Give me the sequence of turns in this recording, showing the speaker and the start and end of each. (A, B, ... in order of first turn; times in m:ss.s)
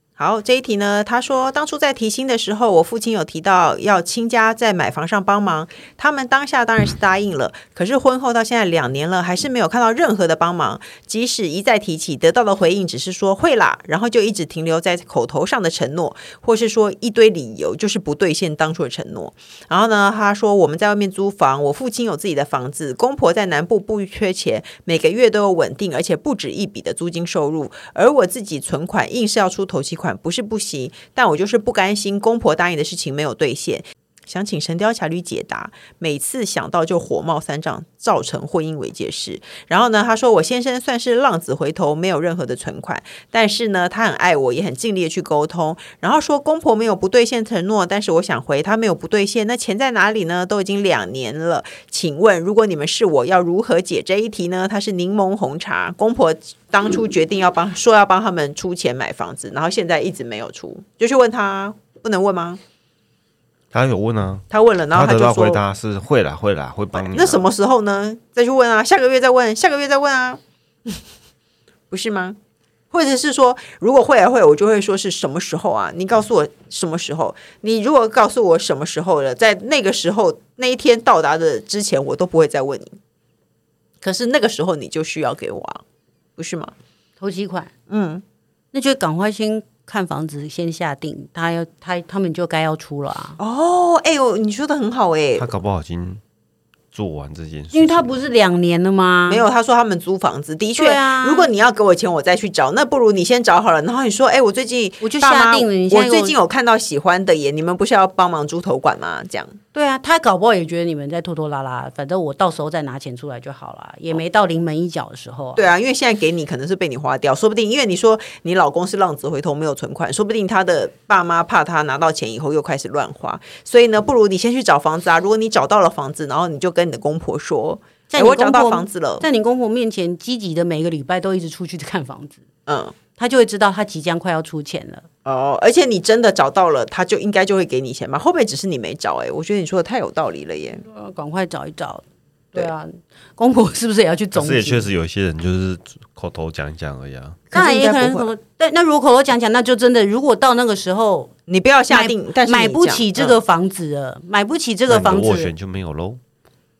0:00.2-1:02.6 A
1:03.7-1:07.5 B
1:04.5-1:05.6 A
1:06.9-1:11.0 A
1:11.9-1:12.4 A
1:12.9-1:22.9 A
1:24.0-1:25.8 A
1:26.4-1:26.7 A
1:27.2-1:27.7 C
1:27.9-1:28.2 A
1:28.7-1:33.4 C
1:33.4-1:35.4 A
1:35.4-1:36.2 B
1:36.9-1:38.1 B
1:37.7-1:39.4 C
1:39.3-1:49.6 A
1:40.8-1:41.5 C
1:45.0-1:46.4 C
1:49.7-1:55.6 C
1:55.6-2:09.2 A
2:08.1-2:12.4 C
2:12.7-2:12.9 A
2:13.1-2:15.0 C
2:15.2-2:20.8 A
2:20.8-2:22.0 C
2:22.5-2:24.9 C
2:24.3-2:27.4 B
2:27.5-2:28.3 A
2:27.5-2:31.3 C
2:31.5-2:33.4 A
2:31.9-2:35.5 C
2:34.9-2:36.2 B